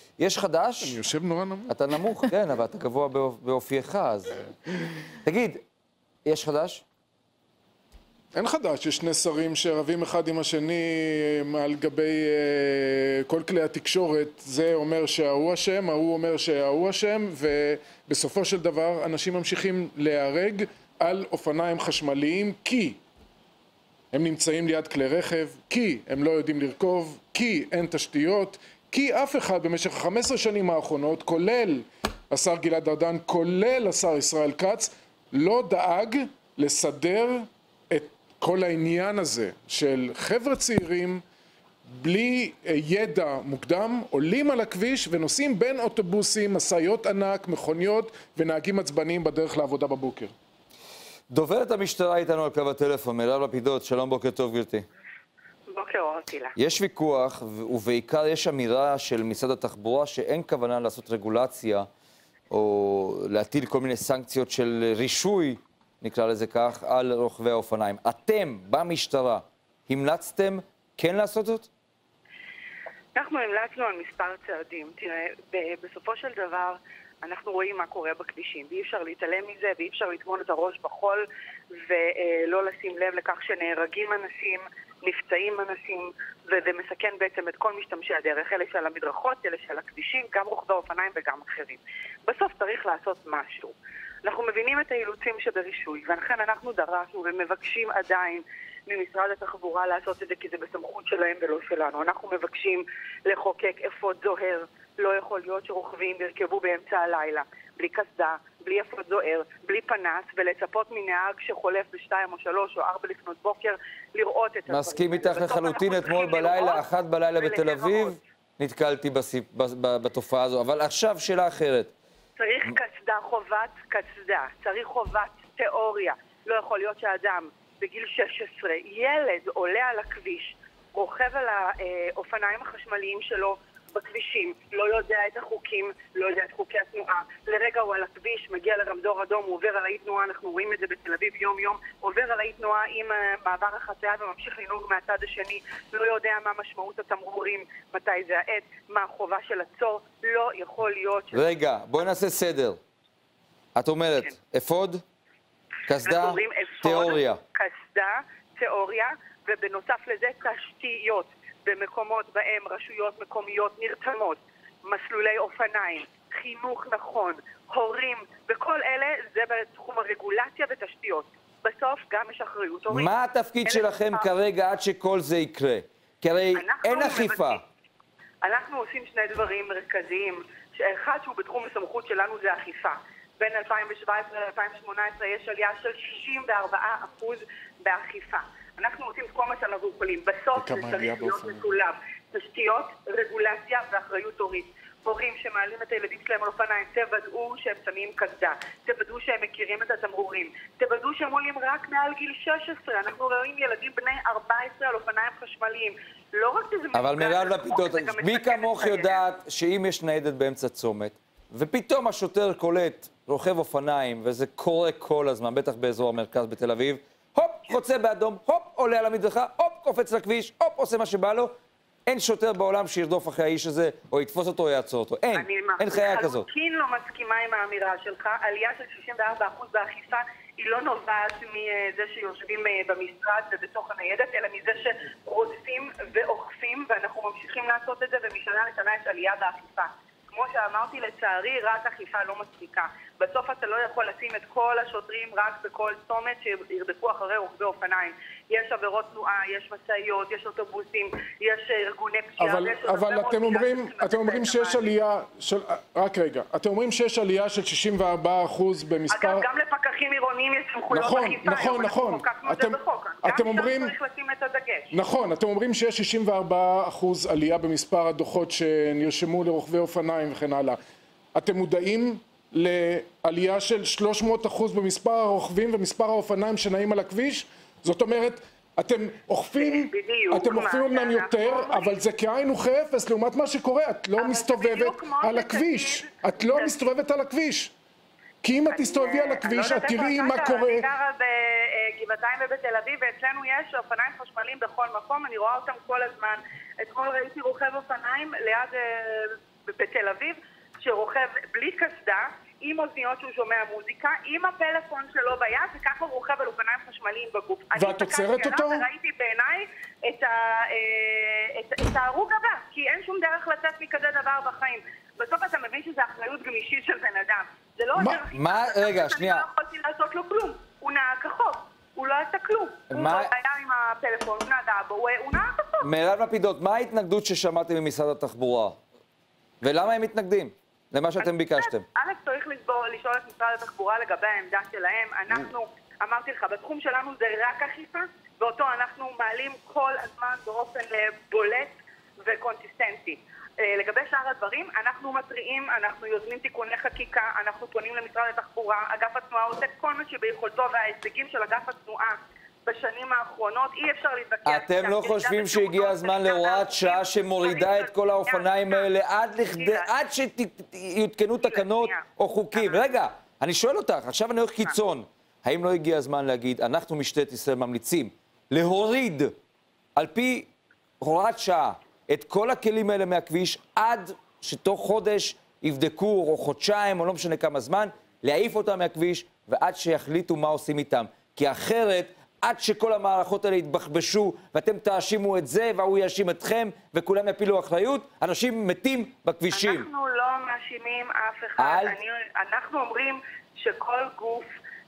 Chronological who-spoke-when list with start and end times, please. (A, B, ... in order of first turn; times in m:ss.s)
0:00.2-0:01.0 A
0:00.8-0:02.3 B
0:01.7-0:04.5 A
0:05.2-0:05.6 A
0:06.2-0:06.8 A
0:08.3-0:23.0 B
0:24.1-0:41.2 B
0:41.8-0:50.3 B
0:51.3-0:54.8 A
0:55.7-0:56.5 C
0:56.6-1:01.9 A
1:02.5-1:11.7 A
1:13.1-1:58.2 C
1:54.7-2:01.9 A
2:02.4-2:31.4 C
2:31.3-2:32.8 A
2:33.7-2:35.0 A
2:35.9-2:37.4 A
2:36.0-2:53.1 C
2:52.9-2:57.6 A
2:53.6-2:54.3 C
2:56.5-2:57.6 C
2:58.4-3:29.2 C
3:10.5-3:11.7 B
3:26.9-3:41.5 A
3:42.0-3:46.4 A
3:45.3-4:14.9 C
4:12.4-4:19.4 B
4:19.1-4:24.9 C
4:20.9-4:23.9 B
4:24.9-4:30.8 B
4:31.3-4:47.7 B
4:39.6-4:42.0 C
4:44.2-4:46.9 C
4:48.4-4:50.8 B
4:48.7-5:25.9 C
5:07.7-5:08.8 B
5:17.9-5:18.2 B
5:18.3-5:19.4 A
5:22.9-5:23.3 A
5:25.8-5:28.8 A
5:29.6-5:31.8 A
5:31.2-5:58.9 C
5:54.4-6:09.3 A
5:59.4-5:59.9 C
6:01.4-6:02.8 C
6:10.0-6:10.5 A
6:11.0-6:29.9 A
6:29.5-6:34.5 C
6:31.6-6:31.9 A